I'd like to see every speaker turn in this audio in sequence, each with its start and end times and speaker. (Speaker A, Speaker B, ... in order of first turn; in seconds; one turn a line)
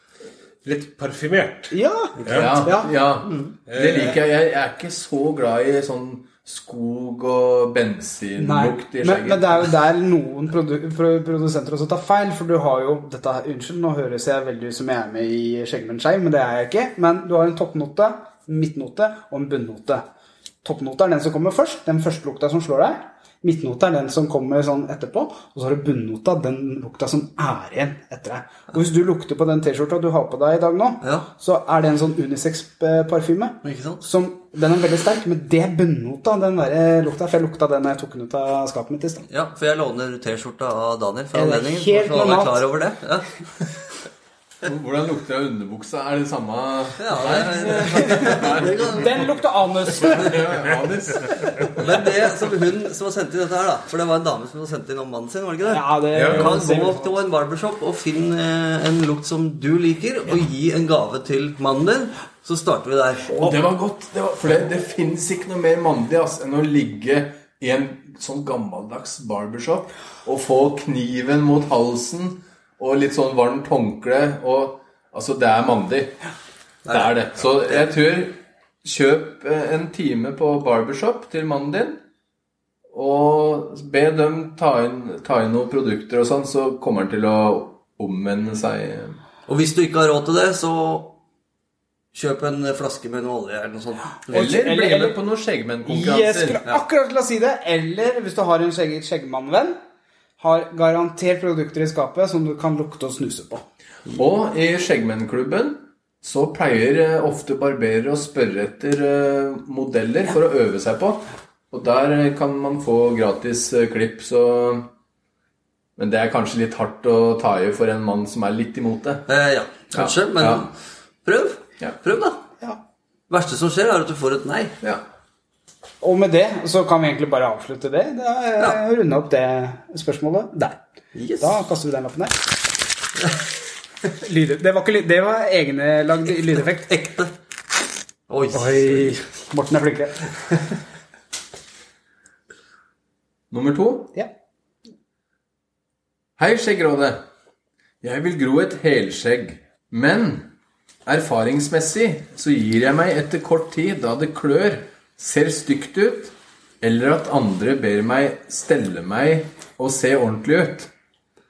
Speaker A: 0.6-1.7
Speaker B: 1.7-2.9
Speaker A: 2.2-2.5
Speaker C: 2.3-9.6
Speaker A: 3.7-4.2
Speaker B: 8.4-20.1
Speaker B: 20.6-39.3
Speaker D: 33.6-34.0
Speaker D: 39.3-43.3
Speaker B: 41.3-42.6
Speaker C: 44.6-49.2
Speaker D: 47.0-49.4
Speaker B: 49.0-50.4
Speaker C: 50.0-51.8
Speaker D: 51.8-63.4
Speaker B: 55.7-57.2
Speaker A: 56.1-56.5
Speaker C: 63.3-76.2
Speaker D: 76.9-77.9
Speaker C: 76.9-82.0
Speaker C: 82.9-89.2
Speaker D: 89.5-91.2
Speaker D: 92.1-94.5
Speaker B: 94.3-95.2
Speaker C: 94.3-96.6
Speaker B: 95.9-99.8
Speaker B: 100.4-103.6
Speaker C: 104.1-114.9
Speaker C: 116.0-119.3
Speaker D: 119.3-120.7
Speaker C: 119.9-120.7
Speaker D: 121.2-122.4
Speaker D: 123.3-124.8
Speaker B: 126.0-130.8
Speaker D: 131.1-131.6
Speaker B: 131.4-132.5
Speaker B: 134.1-137.0
Speaker D: 136.4-137.3
Speaker D: 138.3-139.2
Speaker B: 138.5-140.6
Speaker C: 143.5-144.1
Speaker C: 146.4-147.2
Speaker C: 148.0-150.5
Speaker C: 151.1-160.9